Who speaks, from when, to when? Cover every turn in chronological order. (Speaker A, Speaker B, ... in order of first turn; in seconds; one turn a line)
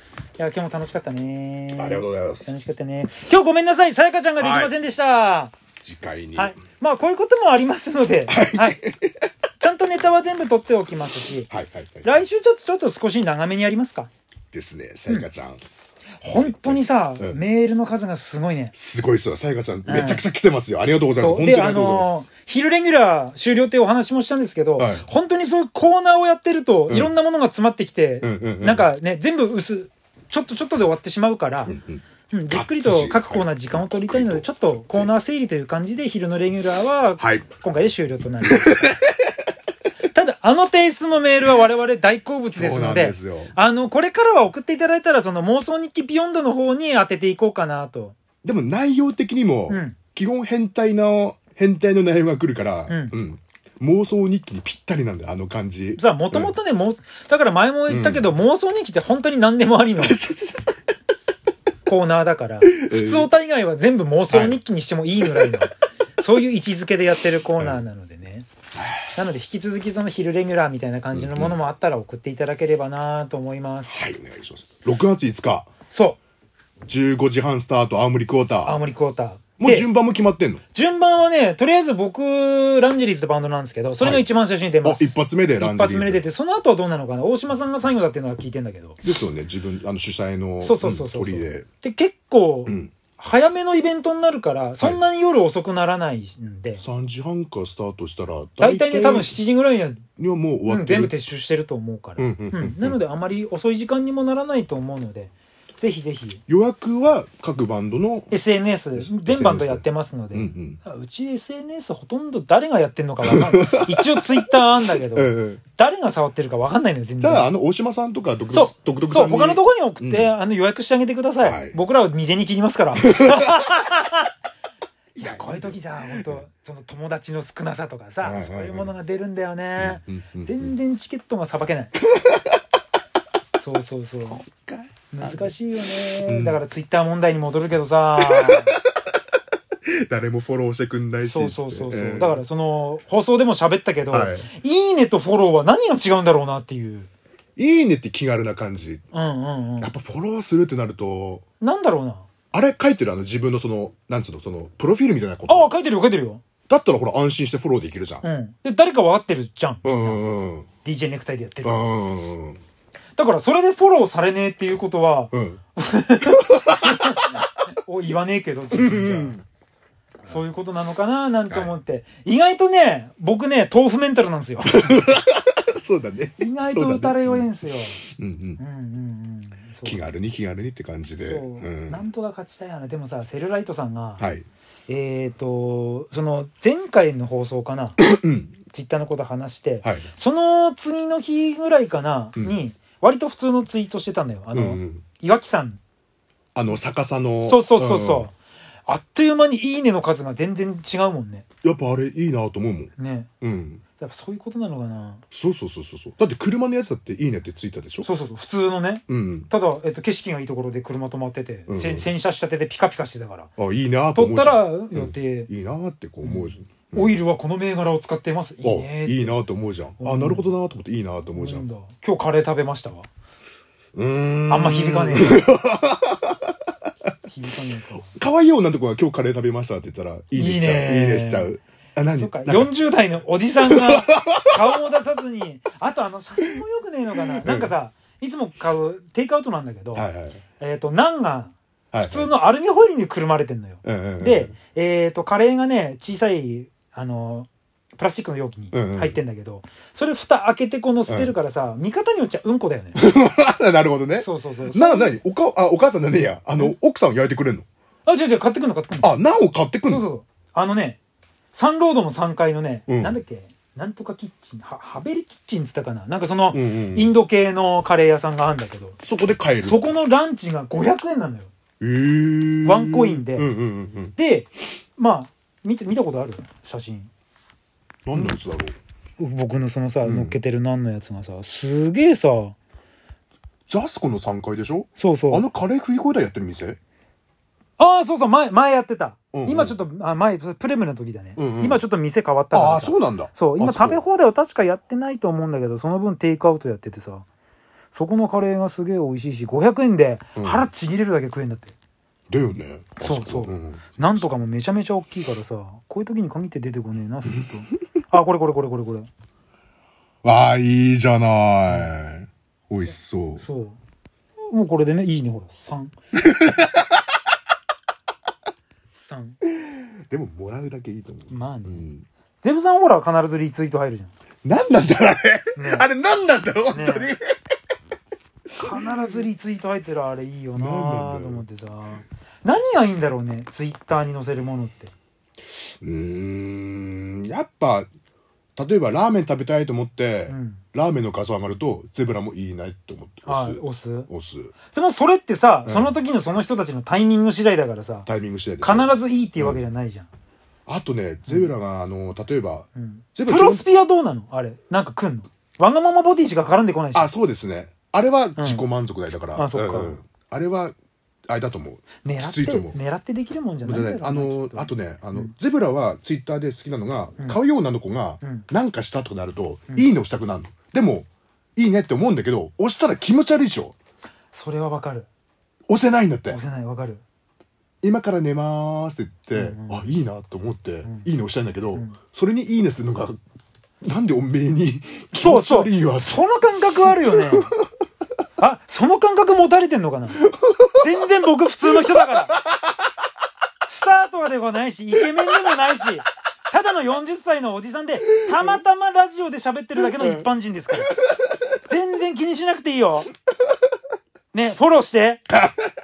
Speaker A: 0.4-5.5
Speaker B: 1.8-2.5
Speaker B: 4.4-4.7
Speaker B: 5.8-6.6
Speaker A: 6.3-8.8
Speaker B: 8.3-9.1
Speaker A: 9.6-11.5
Speaker B: 11.5-12.2
Speaker A: 12.0-14.1
Speaker B: 14.5-15.6
Speaker A: 16.2-18.7
Speaker B: 16.3-17.4
Speaker B: 18.7-22.2
Speaker A: 19.9-20.2
Speaker A: 21.2-31.7
Speaker B: 24.8-25.1
Speaker B: 26.9-27.1
Speaker B: 28.2-28.9
Speaker B: 31.7-35.1
Speaker A: 32.3-38.9
Speaker B: 37.2-37.5
Speaker B: 38.4-39.3
Speaker A: 40.1-48.2
Speaker B: 42.5-43.5
Speaker B: 48.4-56.5
Speaker A: 49.7-50.0
Speaker A: 52.9-53.1
Speaker A: 56.0-60.2
Speaker B: 57.9-58.3
Speaker B: 60.0-60.7
Speaker A: 61.9-68.5
Speaker B: 62.6-63.3
Speaker B: 64.3-64.6
Speaker A: 69.1-74.0
Speaker B: 71.1-71.6
Speaker B: 73.9-75.7
Speaker A: 75.9-76.2
Speaker B: 76.9-78.8
Speaker A: 78.6-79.9
Speaker B: 79.6-80.6
Speaker A: 80.7-89.0
Speaker B: 84.8-86.2
Speaker B: 89.0-91.7
Speaker A: 90.6-96.8
Speaker B: 92.7-92.9
Speaker B: 96.8-99.4
Speaker A: 98.6-100.0
Speaker B: 100.2-101.1
Speaker A: 100.7-106.4
Speaker B: 102.2-103.0
Speaker B: 106.5-108.3
Speaker A: 108.3-117.5
Speaker B: 109.0-110.8
Speaker B: 113.2-115.6
Speaker B: 117.2-120.3
Speaker A: 118.5-124.3
Speaker B: 121.4-121.8
Speaker B: 123.0-123.7
Speaker B: 125.2-126.4
Speaker A: 125.2-131.9
Speaker B: 128.2-128.9
Speaker B: 129.8-130.7
Speaker B: 132.0-132.6
Speaker A: 133.6-134.4
Speaker B: 134.2-135.5
Speaker A: 135.1-138.8
Speaker B: 136.2-136.6
Speaker B: 138.2-138.9
Speaker B: 139.8-142.4
Speaker A: 141.2-147.1
Speaker B: 144.1-144.5
Speaker B: 147.6-149.0
Speaker A: 149.1-149.9
Speaker B: 149.8-151.4
Speaker A: 151.6-152.3
Speaker B: 152.5-155.7
Speaker A: 155.5-156.4
Speaker B: 156.7-158.3
Speaker A: 158.2-160.2
Speaker B: 159.8-160.7
Speaker A: 160.8-161.9
Speaker B: 161.6-162.6
Speaker A: 163.2-169.4
Speaker B: 165.3-165.6
Speaker B: 166.3-167.4
Speaker B: 168.7-169.4
Speaker A: 170.3-175.1
Speaker B: 171.5-171.8
Speaker B: 174.7-177.5
Speaker A: 176.4-178.0
Speaker B: 178.1-178.6
Speaker A: 178.6-180.1
Speaker B: 179.8-182.1
Speaker A: 181.2-184.2
Speaker B: 184.2-184.5
Speaker A: 184.9-188.0
Speaker B: 188.0-188.6
Speaker A: 188.7-195.8
Speaker B: 194.5-195.1
Speaker B: 196.6-198.3
Speaker A: 197.4-198.3
Speaker A: 198.9-201.5
Speaker B: 201.6-203.8
Speaker A: 203.0-203.3
Speaker A: 204.0-205.2
Speaker B: 205.3-208.1
Speaker A: 208.0-213.5
Speaker B: 209.1-209.5
Speaker B: 211.7-212.1
Speaker B: 213.6-217.2
Speaker A: 214.2-215.5
Speaker A: 216.2-219.4
Speaker B: 218.6-221.7
Speaker A: 220.0-220.5
Speaker A: 221.3-223.1
Speaker B: 223.9-226.6
Speaker A: 224.5-225.4
Speaker A: 227.3-228.1
Speaker B: 228.0-232.7
Speaker A: 230.3-231.5
Speaker A: 232.1-240.1
Speaker B: 233.6-234.8
Speaker B: 237.3-237.8
Speaker B: 239.9-240.4
Speaker A: 240.6-253.0
Speaker B: 241.9-242.3
Speaker B: 243.8-244.5
Speaker B: 248.7-249.2
Speaker B: 251.1-251.3
Speaker B: 253.0-257.7
Speaker A: 254.2-255.2
Speaker A: 258.1-259.1
Speaker B: 259.0-260.1
Speaker A: 259.9-261.0
Speaker A: 261.5-269.0
Speaker B: 262.9-263.2
Speaker B: 266.5-267.1
Speaker B: 269.0-269.9
Speaker A: 269.6-271.5
Speaker B: 271.8-274.1
Speaker A: 272.6-273.5
Speaker A: 274.2-277.1
Speaker B: 278.1-278.8
Speaker A: 278.1-278.4
Speaker A: 279.2-282.6
Speaker B: 280.0-280.4
Speaker B: 283.7-286.8
Speaker A: 285.0-285.4
Speaker A: 287.8-297.2
Speaker B: 289.3-289.8
Speaker B: 291.4-291.8
Speaker B: 292.5-294.0
Speaker A: 297.9-301.7
Speaker B: 300.4-300.7
Speaker B: 302.3-304.3
Speaker A: 303.0-309.1
Speaker B: 310.2-313.4
Speaker A: 313.4-313.8
Speaker A: 314.5-315.9
Speaker B: 316.2-316.9
Speaker A: 318.9-319.4
Speaker B: 319.4-322.1
Speaker A: 321.3-321.9
Speaker A: 322.4-324.1
Speaker B: 324.4-327.3
Speaker A: 325.6-325.9
Speaker A: 326.7-327.1
Speaker B: 328.6-329.3
Speaker A: 328.6-334.9
Speaker B: 330.6-331.4
Speaker B: 335.8-337.9
Speaker B: 338.6-344.5
Speaker A: 340.3-340.6
Speaker A: 343.3-344.1
Speaker A: 344.7-348.1
Speaker B: 345.6-345.9
Speaker B: 348.1-349.6
Speaker A: 348.6-350.1
Speaker B: 350.7-353.6
Speaker A: 351.3-351.5
Speaker A: 352.8-357.1
Speaker B: 356.9-360.8
Speaker A: 358.4-358.6
Speaker A: 359.4-360.0
Speaker B: 361.3-362.8
Speaker A: 362.0-365.3
Speaker B: 363.6-373.8
Speaker A: 368.2-368.5
Speaker A: 374.3-375.1
Speaker B: 375.7-376.4
Speaker A: 376.3-377.0
Speaker B: 377.8-383.2
Speaker A: 379.4-379.9
Speaker B: 383.8-386.3
Speaker A: 385.1-387.5
Speaker B: 386.9-387.4
Speaker A: 388.4-392.4
Speaker B: 390.2-390.8
Speaker A: 393.6-400.9
Speaker B: 398.3-398.6
Speaker B: 399.8-400.3
Speaker B: 400.9-401.3
Speaker A: 401.7-403.1
Speaker A: 404.3-405.2
Speaker B: 405.4-405.6